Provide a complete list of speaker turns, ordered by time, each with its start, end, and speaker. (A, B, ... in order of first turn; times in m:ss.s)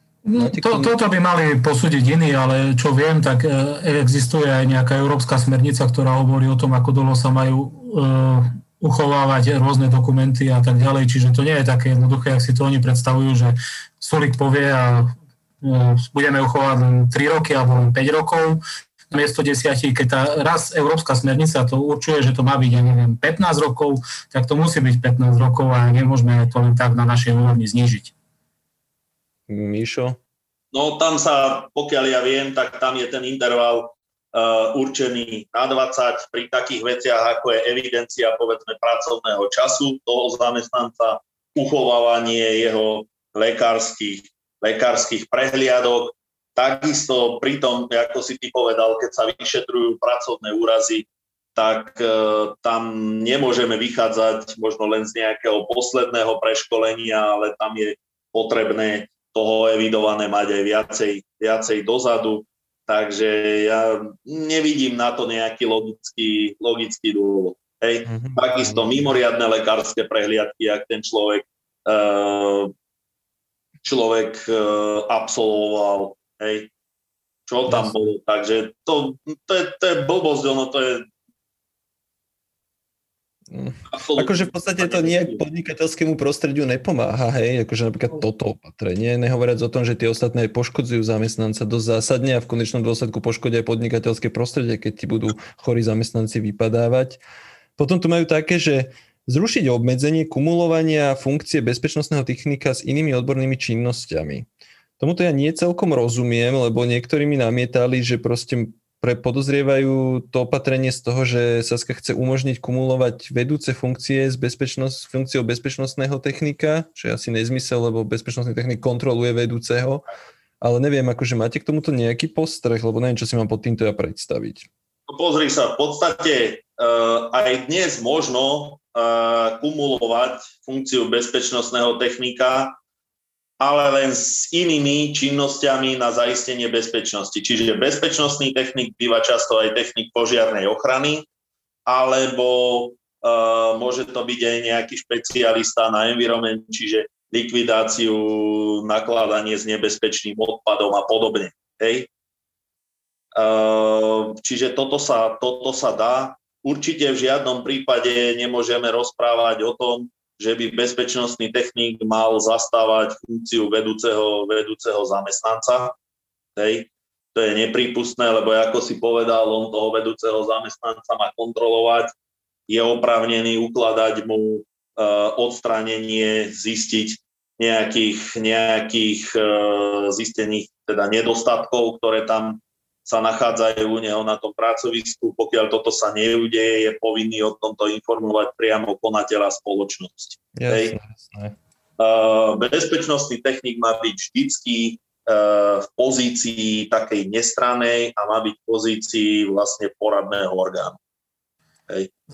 0:00.2-0:28.1 A
0:00.3-0:00.9 B
0:29.5-0:30.2 B
0:30.7-1:12.7 C
1:08.0-1:09.1 B
1:13.8-1:16.7 C
1:17.5-1:21.0 C
1:17.6-1:18.1 B
1:23.5-1:37.2 B
1:23.9-1:25.4 C
1:37.8-1:44.5 B
1:45.0-2:00.0 B
2:00.6-2:04.7 B
2:05.1-2:12.8 C
2:13.6-2:21.2 C
2:21.8-2:32.1 C
2:33.3-2:45.9 C
2:46.6-2:52.1 C
2:52.7-3:10.9 C
3:10.5-3:11.6 B
3:12.0-3:21.0 C